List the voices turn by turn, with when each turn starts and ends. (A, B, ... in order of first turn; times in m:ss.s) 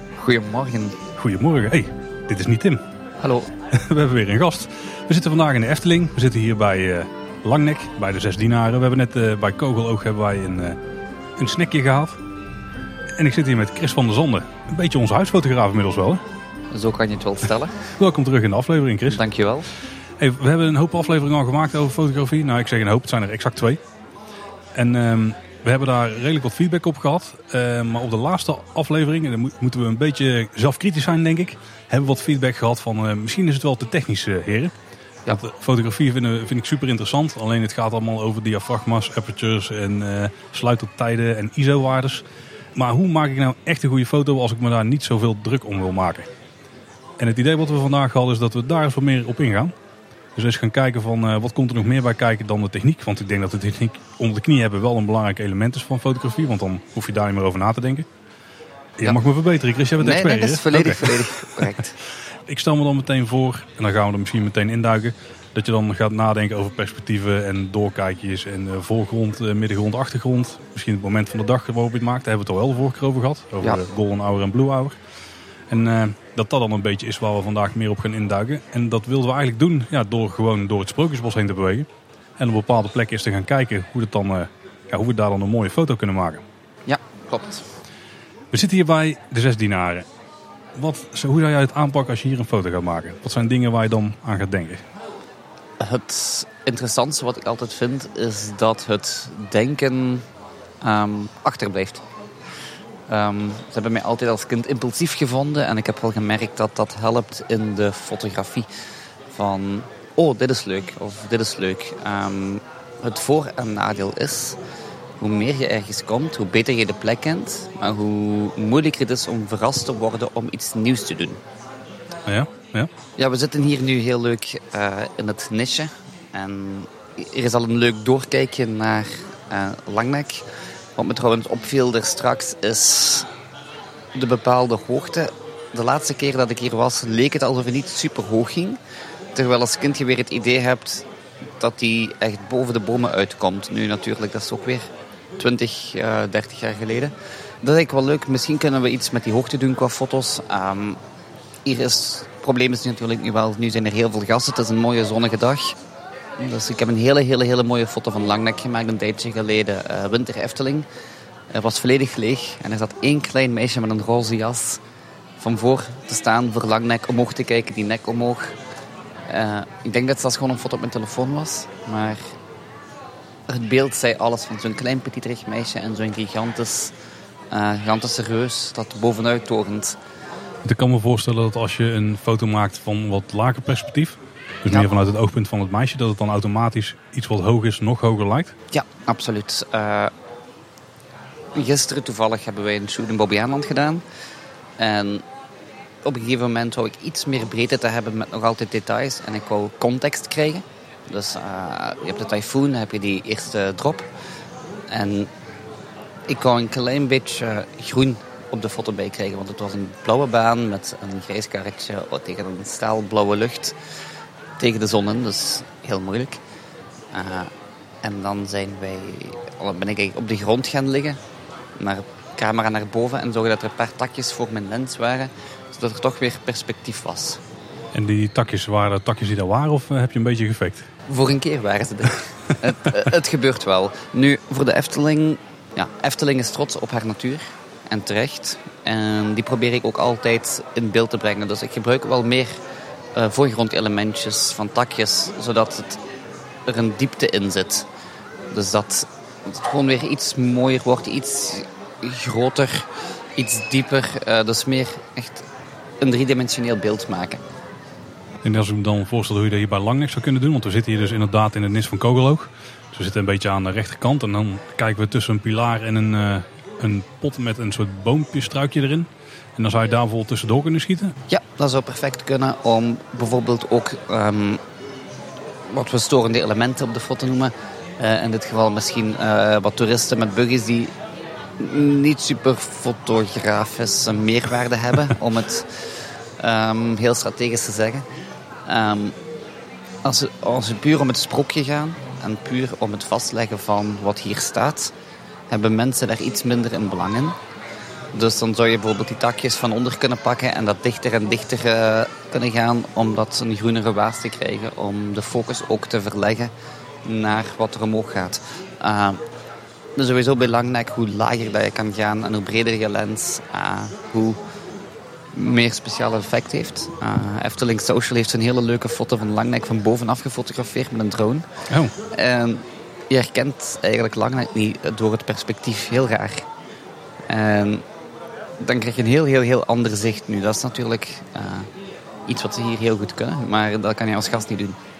0:00.2-0:01.0 A
0:01.1-0:02.8 B
0:03.2-0:03.5 A
0:03.7-0:10.8 B
0:11.4-0:12.2 B
0:13.2-0:16.2 B
0:16.7-0:17.8 A
0:18.0-0:19.2 B
0:19.1-0:19.7 A
0:20.2-0:23.8 B
0:24.7-0:34.7 B
0:35.3-0:42.2 B
0:42.7-0:46.3 B
0:47.2-0:49.7 B
0:50.3-0:58.1 B
0:59.0-1:01.6 B
1:00.0-1:02.0 A
1:02.5-1:15.0 B
1:15.7-1:26.4 B
1:26.9-1:27.6 A
1:28.5-1:30.1 B
1:30.7-1:34.8 B
1:35.8-1:40.2 A
1:40.8-1:42.0 A
1:43.1-1:48.7 A
1:49.3-1:54.6 A
1:55.2-2:01.4 A
2:02.2-2:02.9 B
2:03.2-2:10.4 A
2:11.0-2:13.3 A
2:14.1-2:18.8 A
2:19.3-2:21.0 A
2:21.6-2:31.0 A
2:31.6-2:35.8 A
2:36.4-2:40.8 A
2:41.5-2:44.8 A
2:45.4-2:48.6 A
2:49.3-2:52.3 A
2:53.5-2:56.9 A
2:57.5-3:00.0 A
3:00.6-3:08.5 B
3:08.7-3:10.1 A
3:11.5-3:14.0 A
3:14.8-3:15.2 A
3:16.0-3:24.1 A
3:24.9-3:25.3 A
3:26.3-3:33.7 A
3:34.6-3:36.4 A
3:37.1-3:37.5 A
3:38.0-3:41.2 A
3:41.8-3:47.4 A
3:47.9-3:50.9 B
3:51.1-4:02.6 A
4:03.1-4:06.0 A
4:06.6-4:07.9 A
4:08.5-4:15.4 A
4:16.0-4:17.4 A
4:18.4-4:31.2 B
4:31.3-4:34.6 A
4:35.7-4:40.9 A
4:41.6-4:48.0 A
4:48.6-4:49.2 A
4:50.0-4:54.9 A
4:55.5-4:57.4 A
4:58.1-5:06.5 A
5:07.0-5:09.2 A
5:10.0-5:14.4 A
5:15.3-5:21.5 A
5:21.7-5:21.9 B
5:22.0-5:26.4 A
5:27.3-5:27.8 A
5:28.6-5:31.7 A
5:32.3-5:34.8 A